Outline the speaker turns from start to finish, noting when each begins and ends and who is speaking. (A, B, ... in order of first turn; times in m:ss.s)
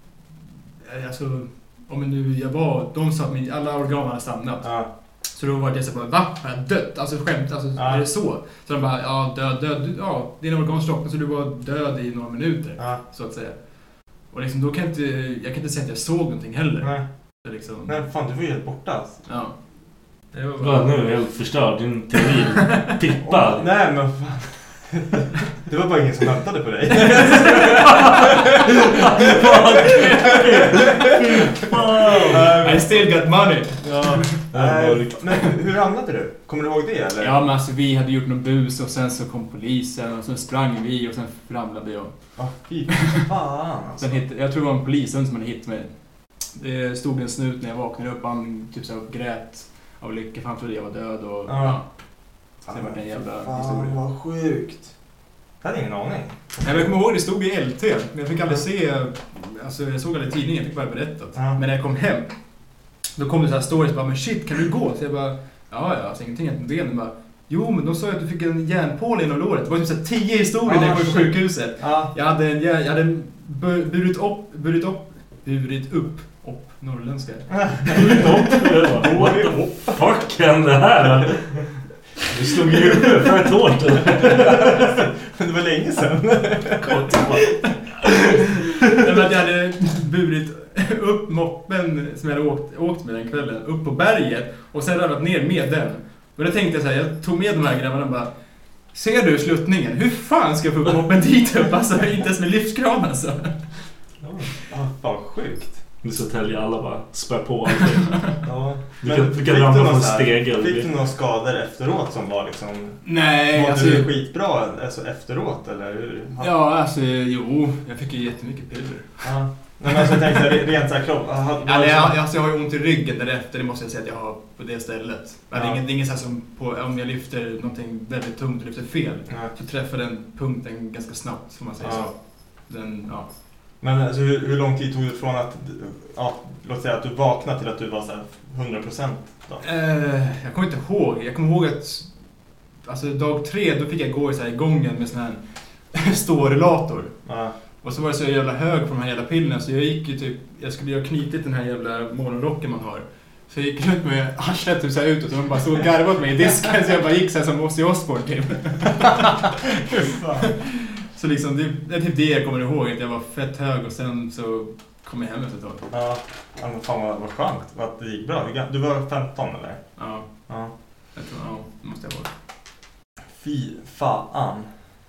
0:00.8-0:04.8 A
0:04.6-0:04.9 B
0:05.3-0:16.9 A
0:07.8-0:08.0 B
0:17.4-0:18.0 A
0:17.8-0:19.2 B
0:19.2-0:19.5 A
0:20.3-0:21.0 A
0:20.6-0:23.7 C
0:23.2-0:30.9 B
0:27.0-0:27.8 A
0:27.7-0:28.4 C
0:28.9-0:32.7 C
0:29.9-0:30.4 A
0:32.2-0:33.1 B
0:32.6-0:34.3 A
0:33.8-0:35.5 C
0:33.9-0:37.4 B
0:37.2-0:42.1 A
0:42.4-0:44.2 B
0:44.0-0:45.9 A
0:46.5-0:51.8 A
0:51.5-0:51.8 B
0:52.6-0:54.0 A
0:52.7-0:54.9 B
0:55.6-0:56.8 B
0:56.6-1:02.3 A
1:03.2-1:18.3 A
1:10.6-1:12.1 B
1:17.5-1:20.0 B
1:17.9-1:21.6 C
1:22.2-1:24.9 C
1:24.1-1:27.4 B
1:26.8-1:27.4 C
1:28.2-1:38.3 A
1:38.9-1:43.6 A
1:44.2-1:44.5 C
1:44.7-1:45.8 B
1:46.0-1:48.3 C
1:48.4-1:56.5 B
1:49.0-1:50.9 C
1:53.0-1:54.1 A
1:56.4-1:59.3 A
1:59.2-2:02.2 B
2:01.6-2:12.1 A
2:05.5-2:05.8 B
2:11.8-2:12.1 B
2:12.7-2:13.3 A
2:13.8-2:19.6 B
2:19.6-2:22.1 A
2:22.8-2:25.4 A
2:25.9-2:27.2 A
2:27.2-2:27.5 B
2:27.8-2:45.9 A
2:40.0-2:40.5 B
2:45.9-2:49.8 B
2:50.0-2:50.3 A
2:51.1-2:52.3 A
2:53.4-2:54.7 B